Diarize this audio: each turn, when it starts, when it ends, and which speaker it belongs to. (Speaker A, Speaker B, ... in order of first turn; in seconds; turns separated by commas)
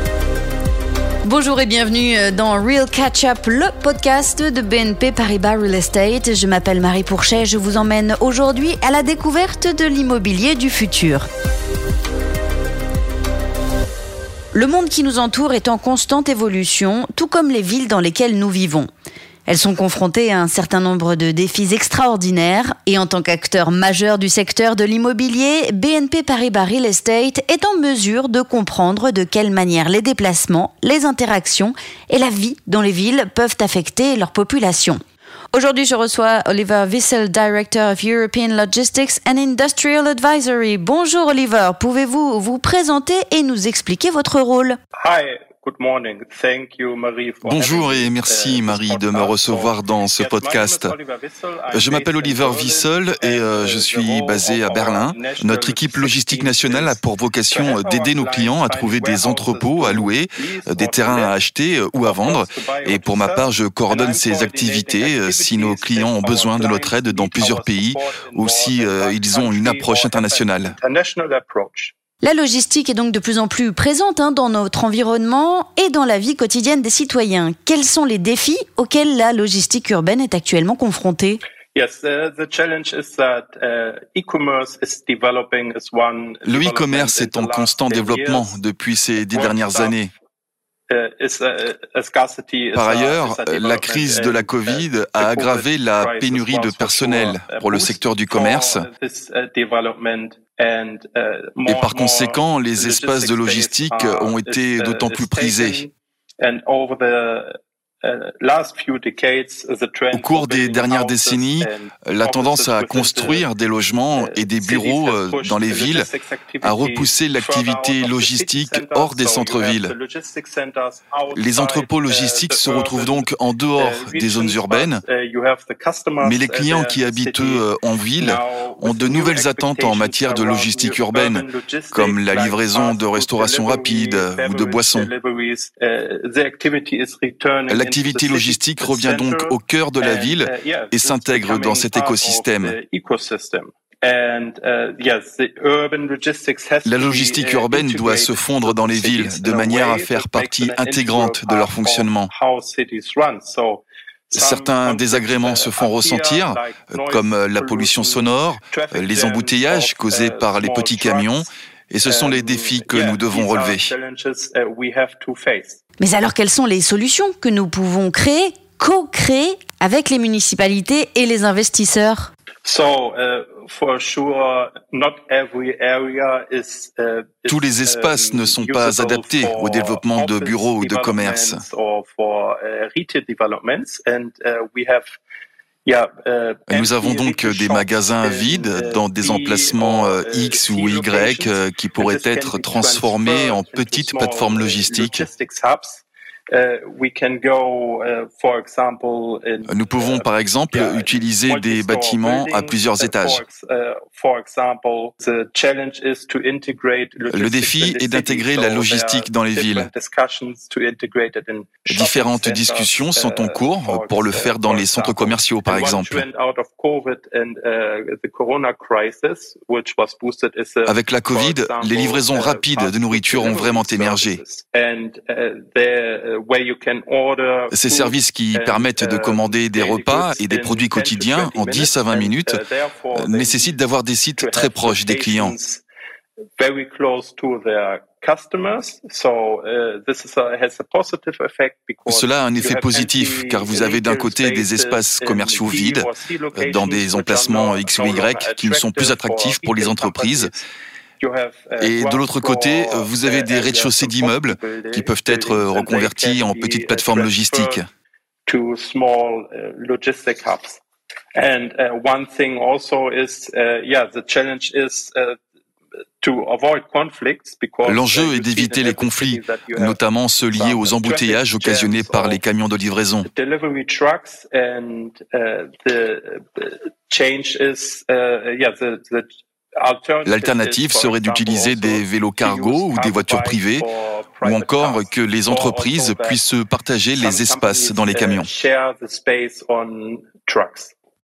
Speaker A: 1.2-11.3, Speaker A: 14.5-18.9, Speaker A: 19.5-35.0, Speaker A: 35.5-44.8, Speaker B: 45.0-61.4, Speaker C: 47.5-50.9, Speaker C: 51.7-70.8, Speaker B: 62.0-71.9, Speaker A: 72.2-81.4, Speaker B: 81.7-88.6, Speaker C: 86.5-90.1, Speaker B: 89.3-90.0, Speaker B: 90.9-113.5, Speaker C: 92.8-98.9, Speaker C: 101.7-105.8, Speaker C: 110.1-116.1, Speaker B: 114.2-127.7, Speaker C: 116.6-119.9, Speaker C: 121.3-125.0, Speaker C: 126.2-135.1, Speaker B: 128.2-161.5, Speaker C: 137.7-142.8, Speaker C: 146.8-152.3, Speaker C: 154.3-163.9, Speaker B: 162.1-165.8, Speaker A: 166.0-172.3, Speaker B: 172.6-185.1, Speaker C: 177.5-181.6, Speaker B: 185.8-233.8, Speaker C: 186.7-195.3, Speaker C: 199.7-203.4, Speaker C: 207.3-209.9, Speaker C: 211.9-216.2, Speaker C: 220.9-224.4, Speaker C: 227.7-232.6, Speaker C: 233.1-235.6, Speaker B: 234.4-235.8, Speaker B: 236.6-250.6, Speaker C: 242.1-250.5, Speaker B: 251.2-257.8, Speaker C: 251.8-257.9, Speaker B: 258.5-260.8, Speaker B: 261.4-265.4, Speaker B: 266.2-270.0, Speaker C: 267.9-273.3, Speaker B: 270.5-272.4, Speaker B: 273.3-286.4, Speaker C: 280.2-283.9, Speaker C: 284.4-288.5, Speaker B: 287.2-290.9